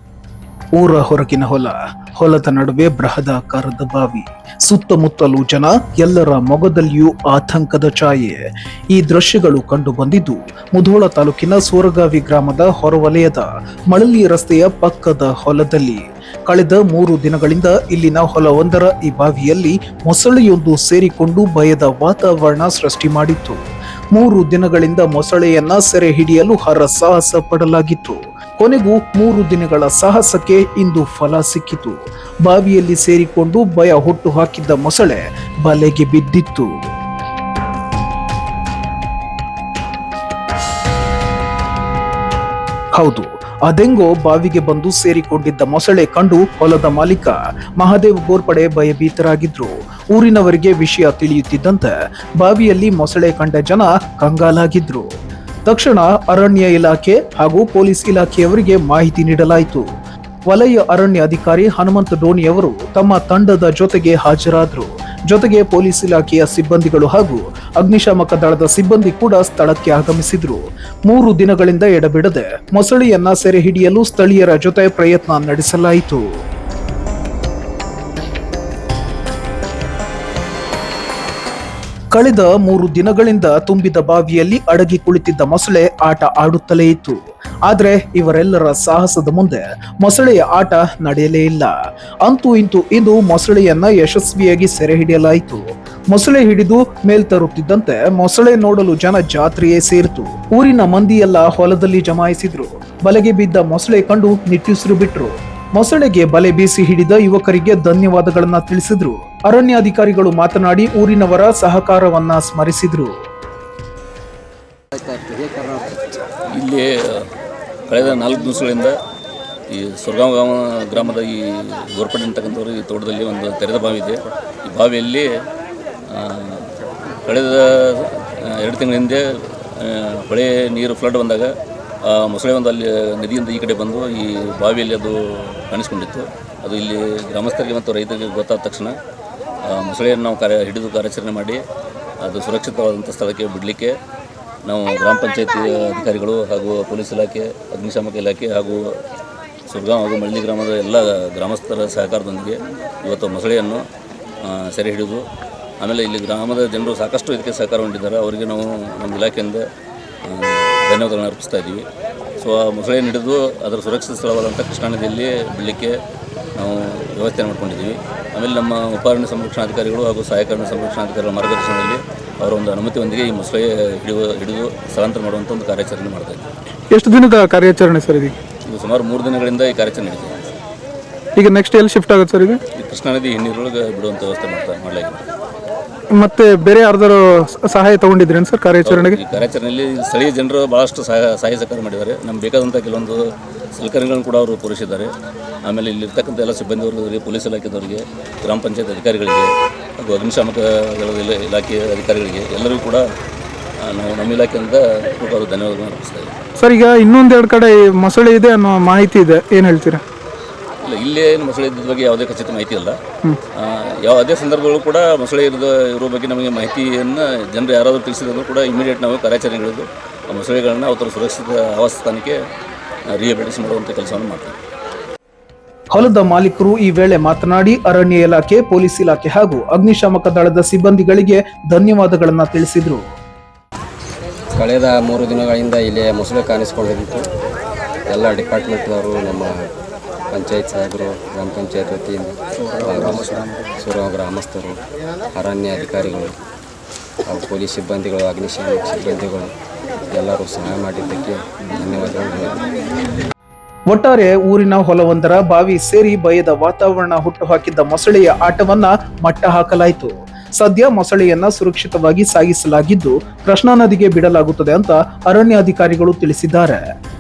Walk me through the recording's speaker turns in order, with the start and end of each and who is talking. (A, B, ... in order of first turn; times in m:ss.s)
0:00.8-0:08.4 A
0:08.9-0:23.6 A
0:24.1-0:36.7 A
0:43.0-0:55.1 A
0:55.7-0:59.8 A
1:00.5-1:16.2 A
1:22.1-1:31.7 A
1:32.2-1:53.1 A
1:55.0-1:55.9 B
1:56.6-1:57.2 C
1:57.9-1:58.9 C
1:59.7-2:05.3 C
2:06.1-2:06.7 C
2:07.2-2:11.5 C
2:12.0-2:18.9 C
2:19.6-2:21.6 C
2:22.2-2:24.0 C
2:24.6-2:28.9 C
2:29.7-2:33.8 C
2:34.4-2:35.2 C
2:35.8-2:39.6 C
2:40.2-2:41.8 C
2:42.4-2:46.0 C
2:46.6-2:56.4 C
2:56.9-2:58.3 D
2:58.6-3:00.6 C
3:01.4-3:02.6 D
3:02.8-3:05.2 C
3:06.1-3:09.2 D
3:08.8-3:13.2 C
3:13.7-3:15.1 C
3:15.6-3:23.0 C
3:23.8-3:26.4 C
3:26.6-3:30.0 D
3:30.8-3:33.0 C
3:33.5-3:42.4 C
3:43.2-3:44.6 C
3:45.9-3:53.0 A
3:54.5-3:57.2 B
3:58.1-3:59.7 B
4:00.3-4:04.8 B
4:05.3-4:06.4 B
4:07.2-4:09.5 B
4:10.1-4:12.6 B
4:13.9-4:26.8 A